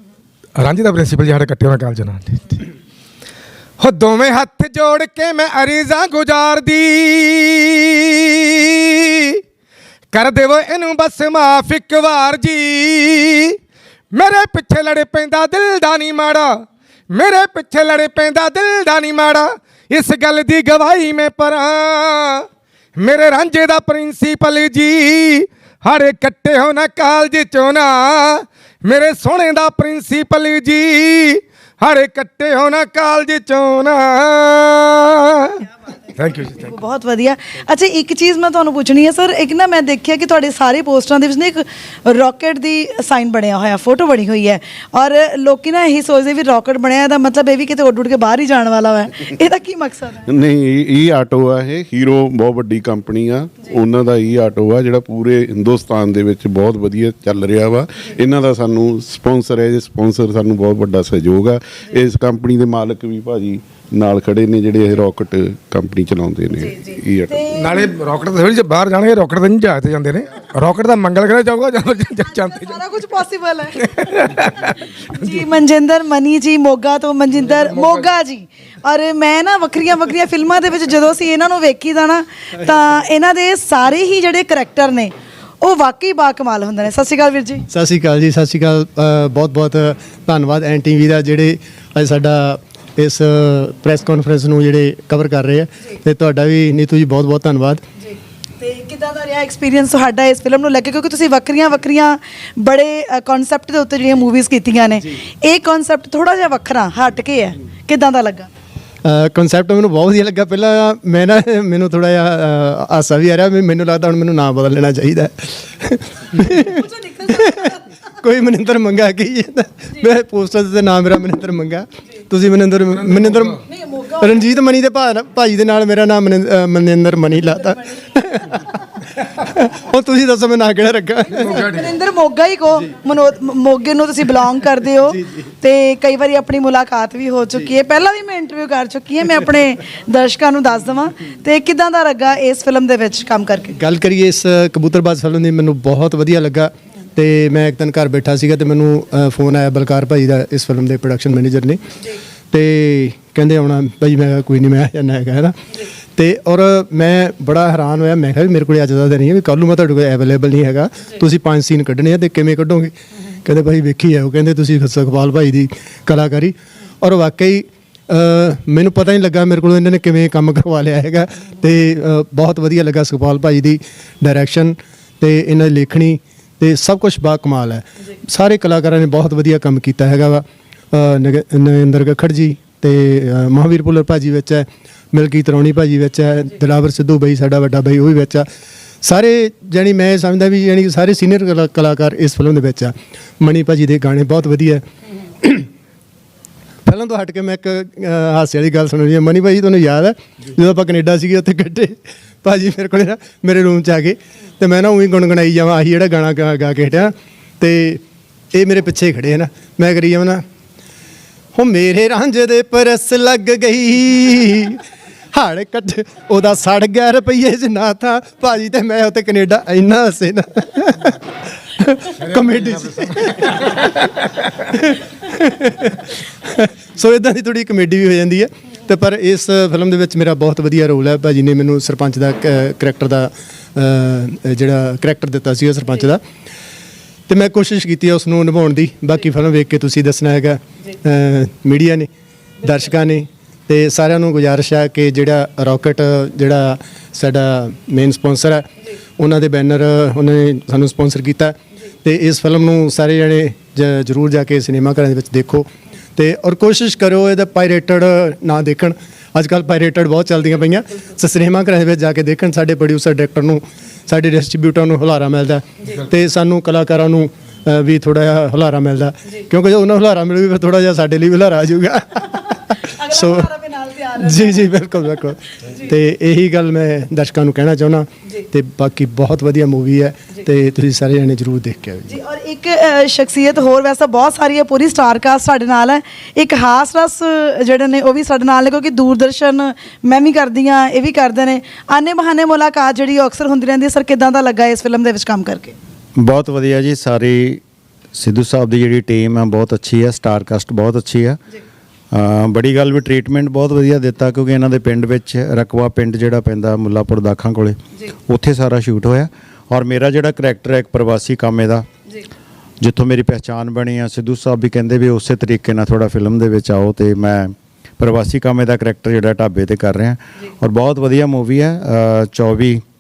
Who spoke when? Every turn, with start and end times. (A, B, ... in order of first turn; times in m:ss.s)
0:00.6-0:02.7 A
0:03.8-0:09.4 A
0:10.1-0:13.6 A
0:14.1-0:16.5 A
0:17.1-0:36.8 A
0:36.6-0:50.3 B
0:50.3-1:07.4 C
1:07.3-1:07.9 B
1:07.5-1:12.8 A
1:12.5-1:13.9 B
1:13.8-1:14.8 A
1:15.1-1:27.6 B
1:17.5-1:18.0 A
1:27.7-1:37.8 D
1:38.0-1:48.5 B
1:49.0-2:03.6 D
1:56.8-1:57.5 B
2:03.6-2:04.3 B
2:04.2-2:08.4 D
2:09.4-2:11.6 D
2:11.4-2:23.8 B
2:23.8-2:31.8 D
2:32.5-2:35.6 D
2:36.2-3:08.5 D
3:09.0-3:14.8 D
3:15.4-3:15.7 D
3:16.8-3:28.0 D
3:28.5-3:30.4 D
3:31.5-3:34.8 D
3:35.3-3:41.2 D
3:41.8-3:44.0 D
3:42.3-3:42.7 A
3:44.6-3:56.2 D
3:57.3-4:02.1 D
4:02.6-4:33.5 D
4:32.8-4:34.8 B
4:34.2-4:42.1 D
4:42.0-4:55.7 B
4:56.2-4:57.6 E
4:58.1-5:01.4 E
5:02.1-5:11.8 E
5:12.8-5:22.8 E